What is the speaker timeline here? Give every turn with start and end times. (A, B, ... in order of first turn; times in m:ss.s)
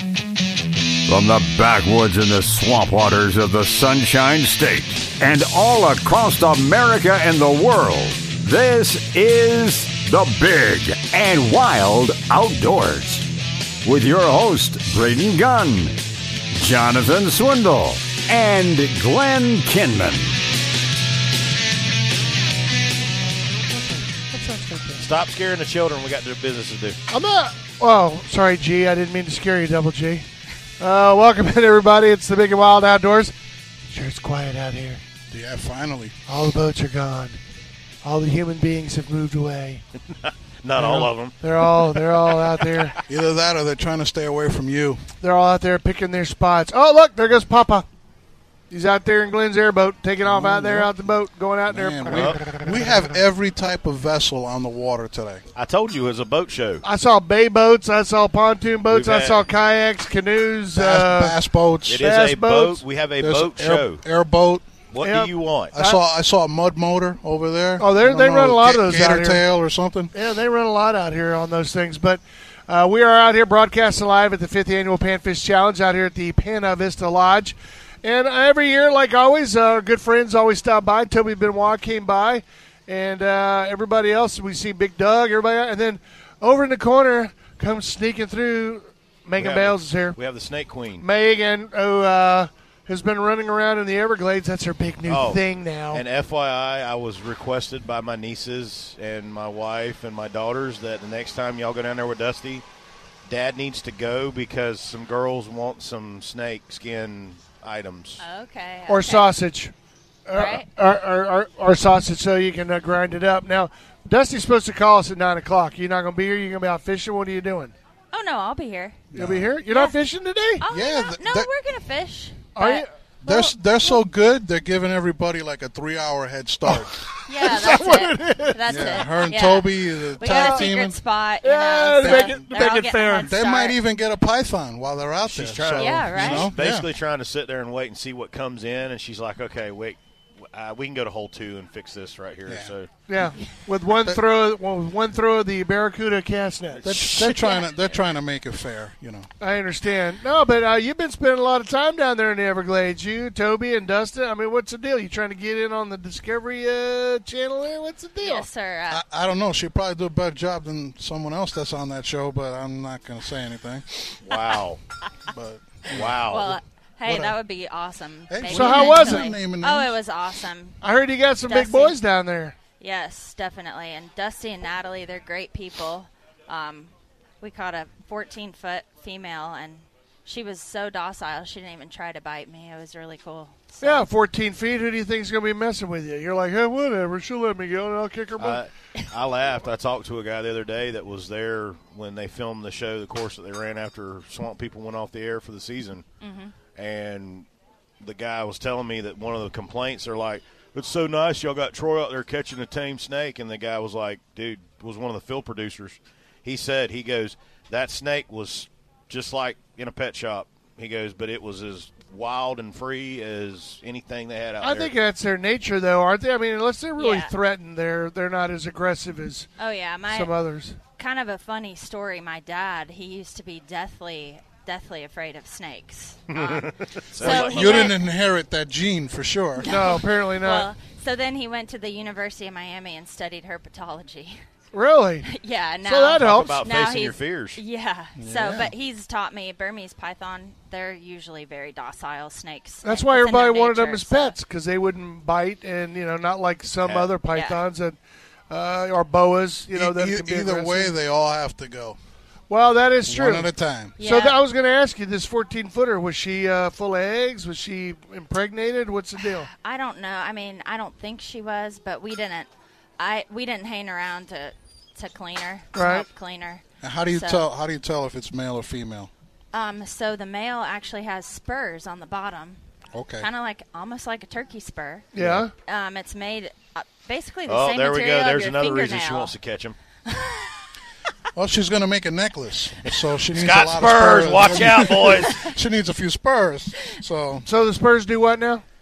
0:01.1-0:13.3 A
0:13.8-0:16.0 A
0:16.5-0:20.4 A
0:24.3-0:25.0 B
0:25.0-0:27.0 C
0:27.1-0:30.2 D
0:30.8-0:33.3 D
0:33.9-0:35.0 D
0:35.3-0:36.1 B
0:36.3-0:37.4 D
0:38.0-0:39.8 D
0:40.2-0:42.9 C
0:40.7-0:43.0 D
0:43.1-0:45.0 B
0:45.2-0:47.8 D
0:48.7-0:53.0 D
0:50.2-0:50.9 B
0:51.7-0:55.4 B
0:52.1-0:52.4 C
0:55.5-0:56.8 C
0:56.8-1:01.4 D
0:58.9-0:59.5 C
1:00.7-1:02.0 B
1:01.8-1:04.0 C
1:02.0-1:02.8 D
1:03.2-1:04.6 B
1:04.9-1:05.7 C
1:05.0-1:06.0 D
1:05.7-1:10.1 B
1:07.8-1:09.4 D
1:10.1-1:30.2 D
1:29.4-1:31.0 C
1:31.0-1:36.0 D
1:35.1-1:42.6 C
1:43.3-1:48.2 C
1:48.2-1:49.3 E
1:48.9-1:49.7 D
1:50.2-1:57.7 D
1:50.3-1:50.7 E
1:58.1-1:59.0 E
1:59.1-1:59.5 B
1:59.1-2:00.6 D
1:59.7-2:00.0 E
2:00.6-2:04.0 E
2:00.7-2:01.5 B
2:02.6-2:02.9 D
2:03.2-2:07.0 B
2:06.7-2:09.0 D
2:07.2-2:13.8 E
2:08.7-2:11.0 B
2:10.2-2:10.7 D
2:11.4-2:13.3 D
2:12.0-2:12.6 B
2:13.2-2:16.9 B
2:15.3-2:22.9 C
2:15.8-2:16.5 E
2:22.5-2:23.3 B
2:23.1-2:27.5 D
2:26.7-2:27.2 C
2:26.8-2:29.3 B
2:27.4-2:27.6 E
2:29.4-2:38.5 D
2:38.2-2:39.0 E
2:38.9-2:44.1 B
2:44.2-2:44.8 C
2:45.3-2:47.4 B
2:45.9-2:46.5 C
2:46.1-2:50.8 E
2:48.3-2:49.9 B
2:48.5-2:49.3 D
2:50.8-2:52.6 D
2:51.4-2:52.0 E
2:52.8-3:04.1 E
3:03.8-3:08.6 D
3:08.4-3:16.0 C
3:16.2-3:16.5 E
3:16.8-3:17.5 C
3:18.0-3:34.9 C
3:34.6-3:39.5 D
3:37.0-3:37.3 E
3:39.6-3:40.3 E
3:40.1-3:40.8 D
3:41.0-3:48.0 E
3:46.3-3:48.0 C
3:47.2-3:49.7 B
3:49.6-3:54.4 E
3:49.6-3:50.7 D
3:54.7-3:55.3 D
3:55.2-4:04.3 E
3:55.8-3:56.6 D
3:56.2-3:57.6 C
3:58.2-3:58.7 B
4:02.8-4:08.0 D
4:06.8-4:07.1 C
4:07.3-4:07.6 E
4:08.5-4:10.9 D
4:09.7-4:12.0 B
4:12.5-4:19.5 D
4:13.0-4:14.0 B
4:14.0-4:14.4 E
4:19.5-4:22.5 E
4:23.0-4:27.4 E
4:25.7-4:26.0 D
4:26.8-4:29.1 B
4:29.5-4:32.6 E
4:32.9-4:33.3 B
4:33.2-4:35.1 E
4:35.1-4:35.5 D
4:35.2-4:35.4 B
4:35.6-4:39.3 E
4:37.5-4:39.7 C
4:40.1-4:40.5 E
4:41.3-4:47.5 B
4:42.9-4:45.4 C
4:47.4-4:48.6 D